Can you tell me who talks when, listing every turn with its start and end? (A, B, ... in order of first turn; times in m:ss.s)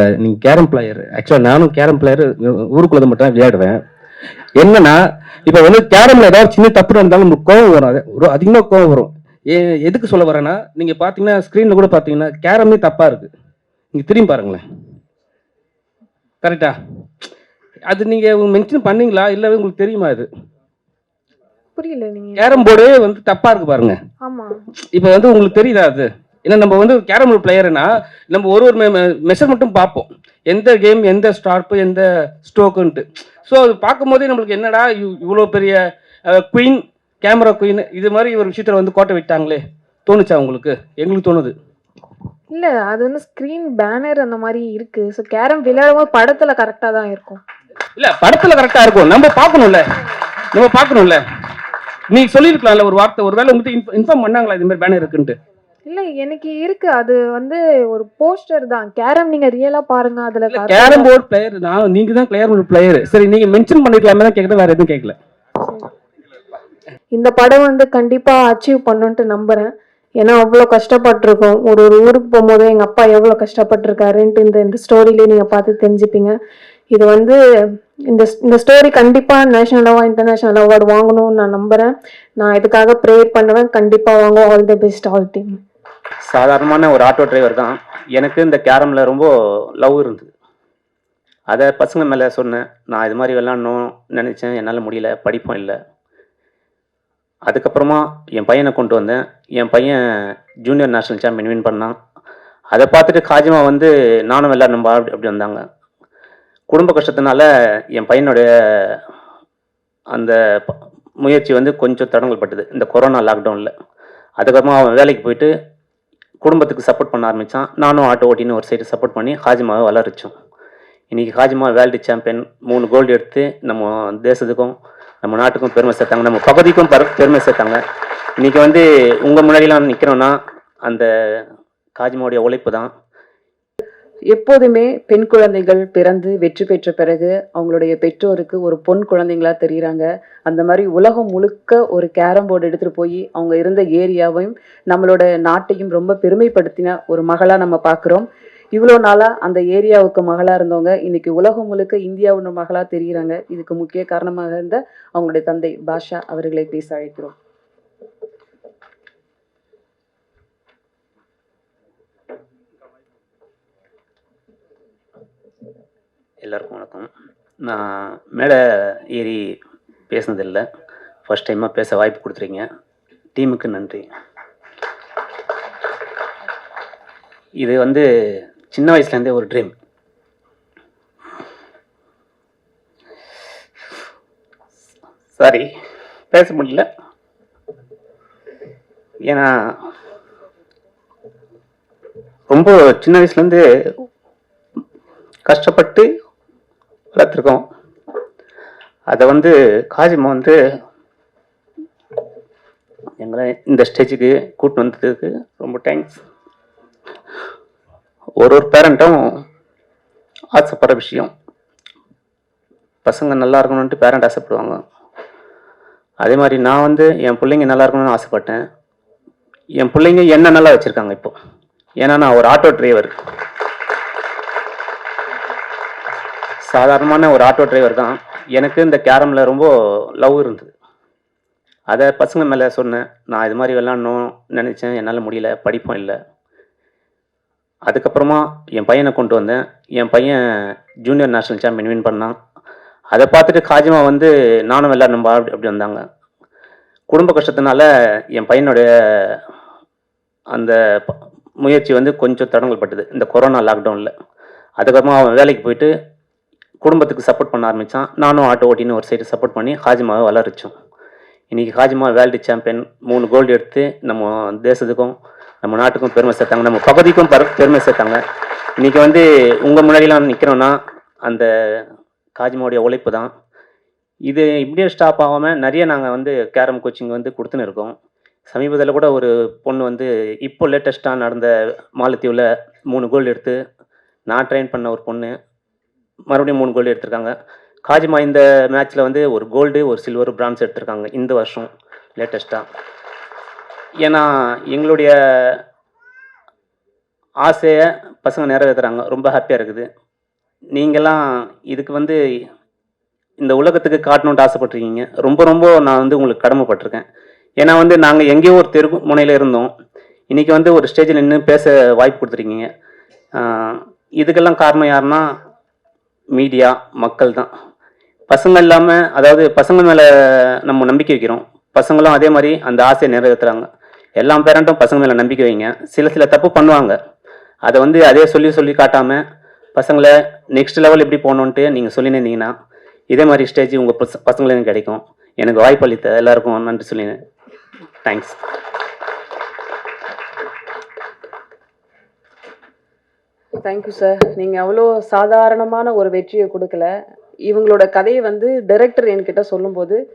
0:00.8-0:01.9 A
0:04.6-0:04.9 A
0:05.5-0:13.3 A
0:13.9-0:14.6 A
0:16.4-0:16.7 A
0:17.9-0:20.3 A
0:21.8-0:22.6 B
0:22.4-0:24.0 A
0:24.2-0:24.6 B
0:25.0-0:41.5 A
0:42.5-0:47.4 B
0:48.0-0:49.8 A
0:50.5-0:51.2 A
0:52.1-0:55.4 A
0:55.9-1:01.1 B
1:00.5-1:05.2 A
1:05.6-1:05.9 B
1:07.1-1:16.4 B
1:16.9-1:17.4 B
1:18.1-1:25.6 B
1:26.3-1:29.3 C
1:29.8-1:30.3 C
1:31.5-1:35.8 C
1:37.5-1:40.0 C
1:40.6-1:41.9 C
1:42.7-1:45.6 C
1:46.7-1:47.4 C
1:48.0-1:49.0 C
1:51.2-1:53.7 C
1:54.4-1:55.5 C
1:56.4-2:00.3 C
2:01.1-2:04.7 C
2:05.2-2:07.8 C
2:08.4-2:11.1 C
2:12.0-2:12.9 C
2:14.3-2:37.4 D
2:46.4-2:47.1 C
2:49.1-2:49.4 C
2:50.1-2:50.6 C
2:51.3-2:52.6 C
2:53.4-2:54.0 C
2:57.6-2:58.0 C
2:58.7-2:59.7 C
3:05.4-3:05.7 C
3:06.3-3:06.8 C
3:12.5-3:13.6 C
3:15.5-3:16.1 C
3:17.2-3:17.6 C
3:19.1-3:20.6 C
3:23.2-3:26.2 C
3:28.4-3:29.2 C
3:30.5-3:31.3 C
3:33.0-3:34.8 C
3:36.2-3:38.6 C
3:39.8-3:41.3 C
3:42.0-3:43.1 C
3:46.7-3:49.7 C
3:50.2-3:50.7 C
3:51.9-3:56.2 C
3:57.9-4:00.4 C
4:01.0-4:02.3 C
4:03.1-4:06.0 C
4:07.1-4:07.8 C
4:08.4-4:09.4 C
4:11.6-4:14.1 C
4:14.8-4:15.9 C
4:16.8-4:20.7 C
4:21.5-4:28.2 C
4:28.8-4:31.5 C
4:32.4-4:33.3 C
4:34.3-4:37.9 C
4:38.5-4:43.6 C
4:44.3-4:45.3 C
4:46.3-4:47.3 C
4:47.9-4:52.6 C
4:54.0-4:55.1 C
4:57.4-4:59.8 C
5:00.8-5:01.2 C
5:01.7-5:02.2 C
5:03.4-5:07.0 C
5:07.6-5:09.7 C
5:10.3-5:12.7 C
5:13.5-5:15.2 C
5:16.4-5:17.5 C
5:18.3-5:20.0 C
5:20.7-5:23.7 C
5:24.2-5:27.0 C
5:27.7-5:29.2 C
5:29.8-5:32.5 C
5:33.1-5:37.1 C
5:38.0-5:38.4 C
5:43.6-5:46.9 D
5:47.5-5:50.0 D